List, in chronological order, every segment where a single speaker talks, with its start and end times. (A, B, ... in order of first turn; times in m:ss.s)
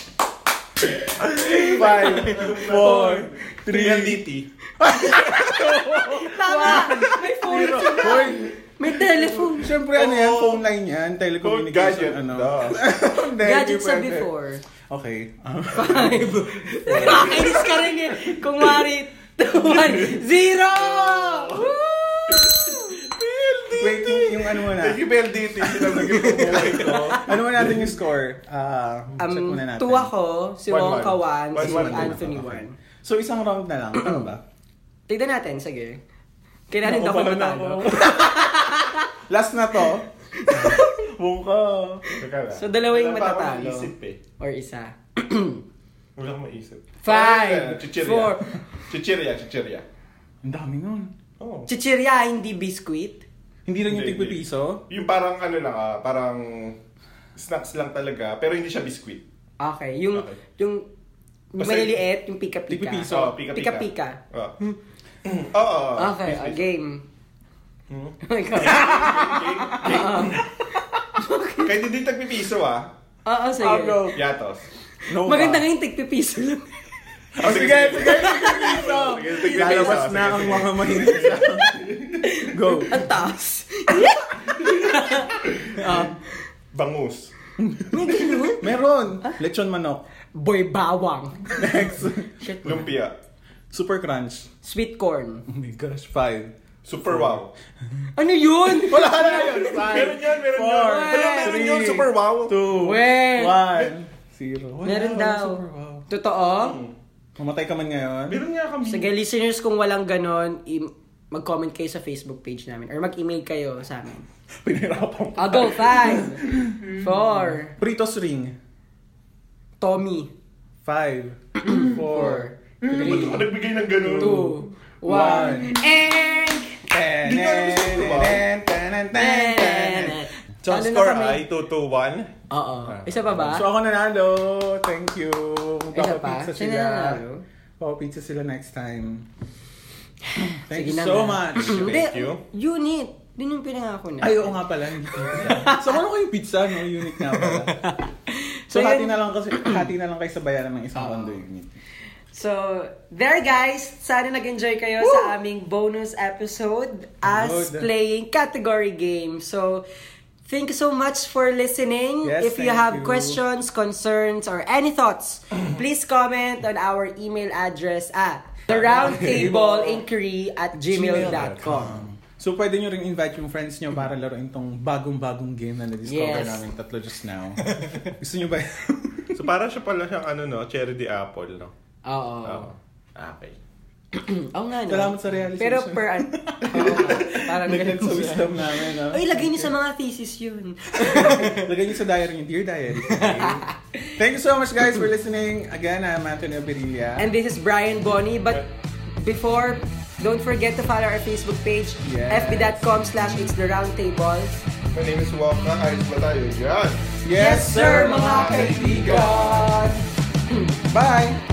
0:01.2-0:04.5 A
0:01.3-0:04.2 B
0:04.8-0:08.6 B
0:06.1-0:09.8 C
0:09.2-0:14.3 B
0:09.9-0:10.6 A
0:11.4-0:12.8 A
0:13.3-0:14.6 C
0:14.9-0:17.6 B
0:15.7-0:23.0 C
0:16.9-0:17.5 A
0:20.7-0:21.7 A
0:22.3-0:27.9 A
0:23.8-0:25.0 B
0:25.6-0:27.3 C
0:26.0-0:30.1 B
0:29.2-0:32.7 C
0:30.7-0:32.4 A
0:31.6-0:34.4 B
0:34.0-0:34.3 C
0:35.1-0:36.0 C
0:36.7-0:39.1 C
0:36.8-0:38.5 B
0:39.3-0:42.0 B
0:39.8-0:40.9 C
0:42.1-0:44.2 A
0:42.5-0:45.6 C
0:46.2-0:48.4 A
0:47.0-0:48.5 C
0:48.9-0:49.8 A
0:50.4-0:51.1 B
0:51.4-0:51.7 A
0:51.7-0:53.2 C
0:53.6-0:54.8 B
0:53.8-0:56.8 A
0:57.4-0:59.2 A
0:59.6-1:00.8 C
1:01.5-1:04.2 C
1:01.6-1:02.0 A
1:02.7-1:03.3 B
1:03.1-1:04.6 A
1:05.2-1:06.7 A
1:06.0-1:07.0 C
1:07.9-1:10.4 A
1:08.2-1:10.5 C
1:08.6-1:10.4 B
1:11.1-1:11.8 C
1:11.6-1:12.9 A
1:13.2-1:14.2 C
1:13.6-1:14.2 B
1:14.1-1:14.7 A
1:15.1-1:15.7 B
1:15.2-1:16.7 C
1:17.3-1:23.1 B
1:17.4-1:21.5 A
1:17.6-1:20.4 C
1:22.2-1:26.2 C
1:26.7-1:27.3 A
1:27.6-1:30.0 B
1:27.9-1:28.7 C
1:30.3-1:31.8 C
1:31.5-1:32.5 B
1:32.4-1:32.9 C
1:32.6-1:33.1 A
1:33.7-1:34.5 B
1:34.6-1:35.4 C
1:35.5-1:36.5 B
1:36.8-1:37.5 A
1:37.1-1:37.4 B
1:38.2-1:40.2 C
1:38.7-1:46.0 B
1:39.4-1:42.6 A
1:40.7-1:41.8 C
1:42.7-1:43.9 C
1:44.8-1:46.8 C
1:46.5-1:46.9 A
1:47.4-1:48.4 B
1:48.3-1:49.1 A
1:48.8-1:54.2 C
1:54.6-1:57.0 B
1:55.4-1:57.8 C
1:57.8-1:58.6 B
1:59.8-2:00.3 C
2:00.8-2:05.7 B
2:01.6-2:03.4 C
2:02.8-2:04.5 A
2:04.2-2:06.8 C
2:06.9-2:10.2 B
2:07.2-2:08.4 A
2:09.1-2:11.4 C
2:10.6-2:12.3 A
2:12.5-2:13.7 C
2:12.8-2:13.5 A
2:13.5-2:17.2 B
2:15.9-2:17.4 C
2:17.8-2:19.3 B
2:20.4-2:26.0 C
2:20.5-2:22.1 B
2:21.6-2:22.4 A
2:24.2-2:27.7 B
2:27.0-2:29.9 C
2:28.7-2:31.7 B
2:30.9-2:31.4 C
2:32.3-2:39.8 C
2:35.0-2:35.4 B
2:37.2-2:37.9 B
2:40.4-2:51.9 C
2:42.2-2:43.4 B
2:48.7-2:49.5 A
2:48.8-2:50.0 B
2:50.9-2:59.3 B
2:51.1-2:52.0 A
2:56.0-2:56.6 C
2:57.7-2:58.0 C
2:59.3-3:01.7 A
3:02.0-3:02.7 C
3:02.4-3:03.6 A
3:04.1-3:11.7 C
3:04.9-3:09.7 B
3:11.0-3:13.6 B
3:13.1-3:14.1 C
3:14.2-3:17.2 B
3:17.2-3:18.7 C
3:19.2-3:24.6 C
3:22.0-3:22.9 B
3:24.9-3:27.0 A
3:27.2-3:30.0 B
3:27.3-3:29.9 C
3:27.8-3:29.5 A
3:30.9-3:31.4 B